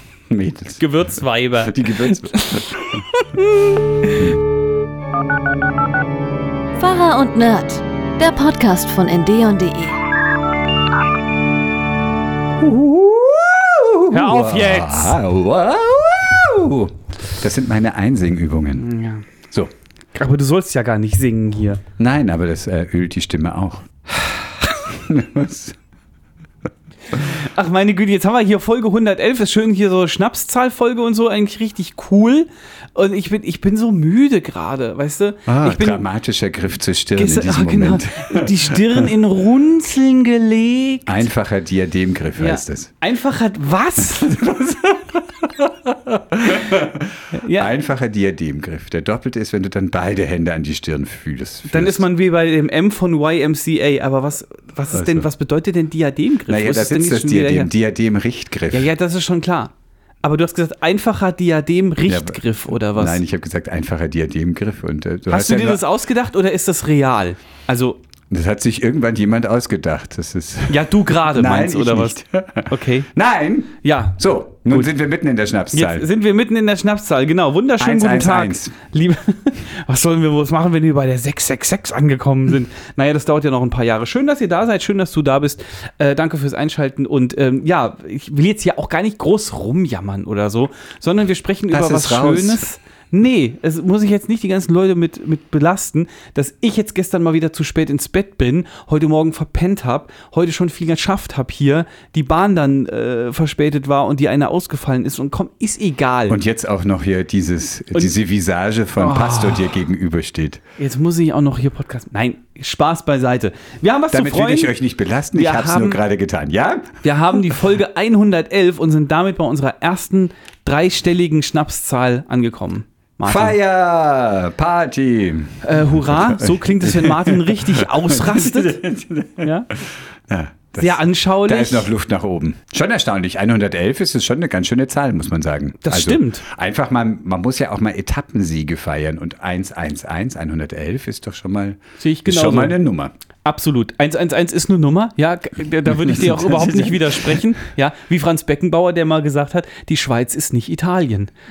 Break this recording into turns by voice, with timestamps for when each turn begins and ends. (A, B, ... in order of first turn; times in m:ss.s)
0:00.3-0:00.8 A
0:00.8-0:04.4 B
0:01.6-0:03.0 A
0:06.8-0:10.0 C
0:12.6-0:18.9 A
0:14.1-0:15.2 B
0:18.8-0:19.2 B
0:20.1-0:21.8 B
0:22.0-0:25.8 A
0:27.1-0:36.0 B
0:35.5-0:39.1 A
0:37.2-0:41.3 B
0:41.1-0:42.9 A
0:42.4-0:45.0 B
0:44.1-0:52.0 A
0:47.3-0:47.7 B
0:51.6-0:57.7 B
0:54.9-0:55.3 A
0:56.5-0:58.9 A
0:58.7-0:59.7 B
1:00.2-1:03.2 B
1:02.0-1:05.8 A
1:05.3-1:08.0 B
1:08.3-1:16.1 A
1:10.7-1:13.1 B
1:13.8-1:14.9 B
1:15.7-1:46.4 B
1:17.8-1:18.7 A
1:31.7-1:32.7 A
1:46.3-1:50.6 A
1:49.0-1:49.8 B
1:50.8-1:54.7 B
1:54.1-1:57.0 A
1:55.3-1:56.0 B
1:57.0-2:03.6 B
2:03.2-2:23.1 A
2:05.6-2:08.8 B
2:09.4-2:09.7 B
2:10.8-2:11.9 B
2:15.8-2:16.4 B
2:22.0-2:22.8 B
2:23.4-2:31.3 B
2:25.9-2:27.5 A